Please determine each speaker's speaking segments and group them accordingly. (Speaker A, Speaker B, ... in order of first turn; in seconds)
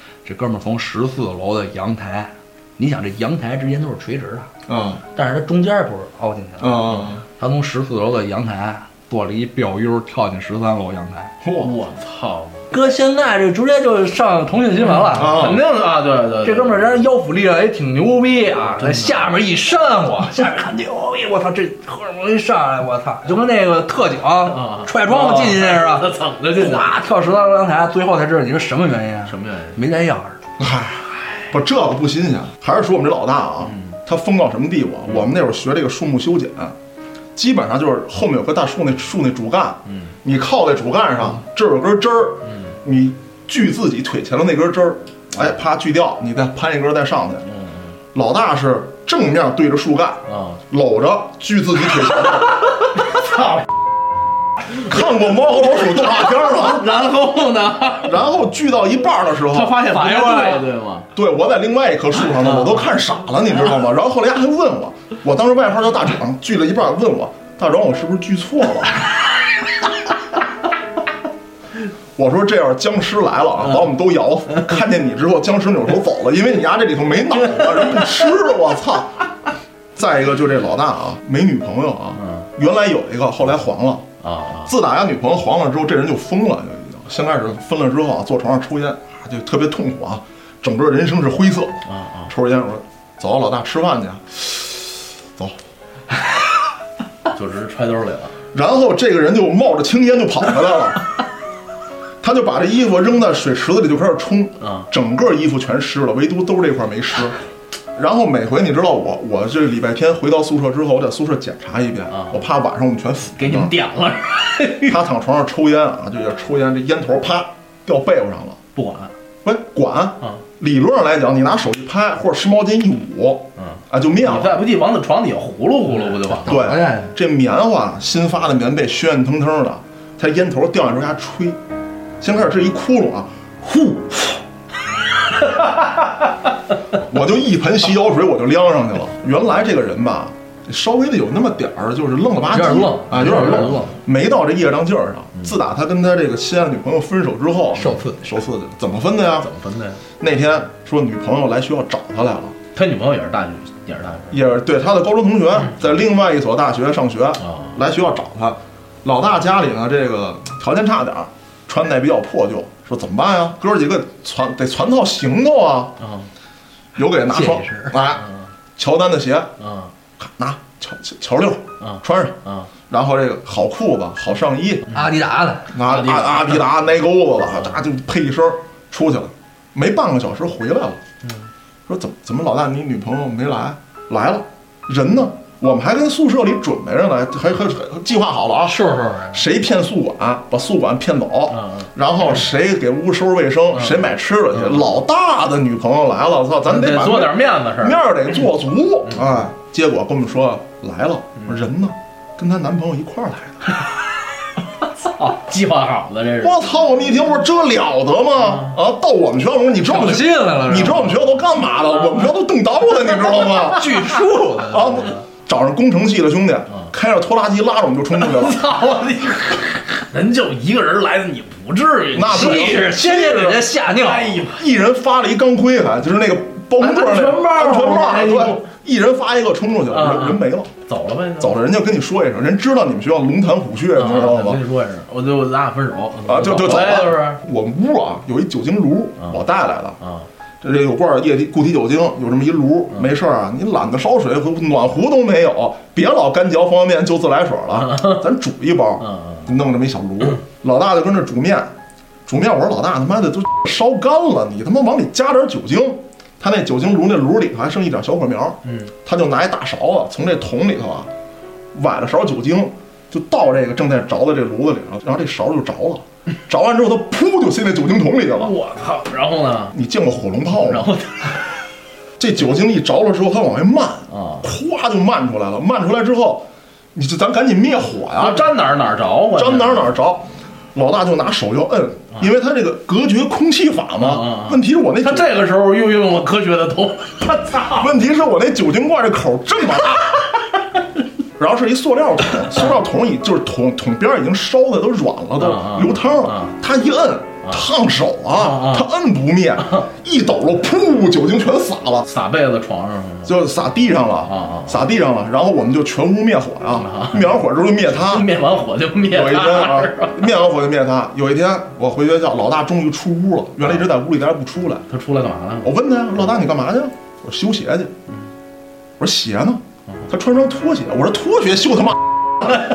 Speaker A: 0.2-4.5, 5.1-11.3, 12.7-15.5, 16.4-30.4, 59.9-60.7, 125.9-127.2, 142.5-144.0, 147.7-148.4, 167.3-167.9, 174.9-175.7, 188.6-189.4, 209.8-211.2, 213.7-215.2, 222.2-224.4
Speaker B: 4.7-5.0, 6.6-7.2, 11.4-11.7, 15.1-15.7, 30.6-36.7, 37.4-47.5, 48.1-52.7, 54.8-57.0, 58.0-59.8, 61.1-69.0, 72.2-79.2, 80.0-84.1, 84.7-95.6, 98.5-101.0, 102.2-107.4, 108.0-113.7, 114.8-118.6, 119.4-124.6, 126.4-131.6, 132.2-133.3, 137.0-149.5, 150.2-152.6, 154.3-166.0, 166.9-169.5, 170.2-172.4, 172.9-174.9, 175.7-181.0, 181.9-203.8, 206.4-214.1, 214.7-218.6, 222.1-223.5, 224.5-230.7, 231.4-234.6, 236.2-240.0, 240.6-251.7, 252.3-261.1, 261.7-268.5, 269.7-270.9, 272.2-278.5, 279.3-285.3, 287.7-290.3, 291.4-302.1, 303.2-308.3, 309.1-314.9, 315.6-317.9, 319.0-322.6
Speaker C: 11.6-12.7, 14.9-17.0, 18.8-19.3, 24.4-27.0, 29.3-29.8, 33.6-34.0, 39.9-40.1, 42.5-42.7, 47.5-48.0, 50.3-50.6, 52.4-53.6, 55.8-58.2, 59.5-61.1, 62.2-62.9, 82.2-82.5, 84.2-84.7, 91.8-92.3, 97.3-98.3, 104.6-104.9, 112.1-112.4, 113.4-115.0, 118.8-119.1, 123.6-126.7, 133.6-134.3, 135.3-136.1, 142.8-143.8, 149.4-150.0, 152.7-154.4, 157.4-157.8, 166.0-166.3, 168.2-168.5, 169.6-169.9, 171.8-172.7, 175.8-176.7, 177.4-177.8, 181.2-181.5, 191.5-191.9, 193.8-194.9, 196.6-198.0, 205.0-206.6, 208.5-208.7, 213.1-214.1, 218.1-224.7, 226.8-228.6, 229.9-231.6, 233.9-237.4, 240.0-240.3, 247.8-248.3, 249.0-249.5, 258.6-258.9, 268.3-269.7, 270.5-271.6, 274.1-274.5, 278.1-279.9, 284.0-287.9, 295.4-296.5, 298.3-298.9, 302.1-303.4, 304.2-304.8, 306.8-310.3, 314.9-315.7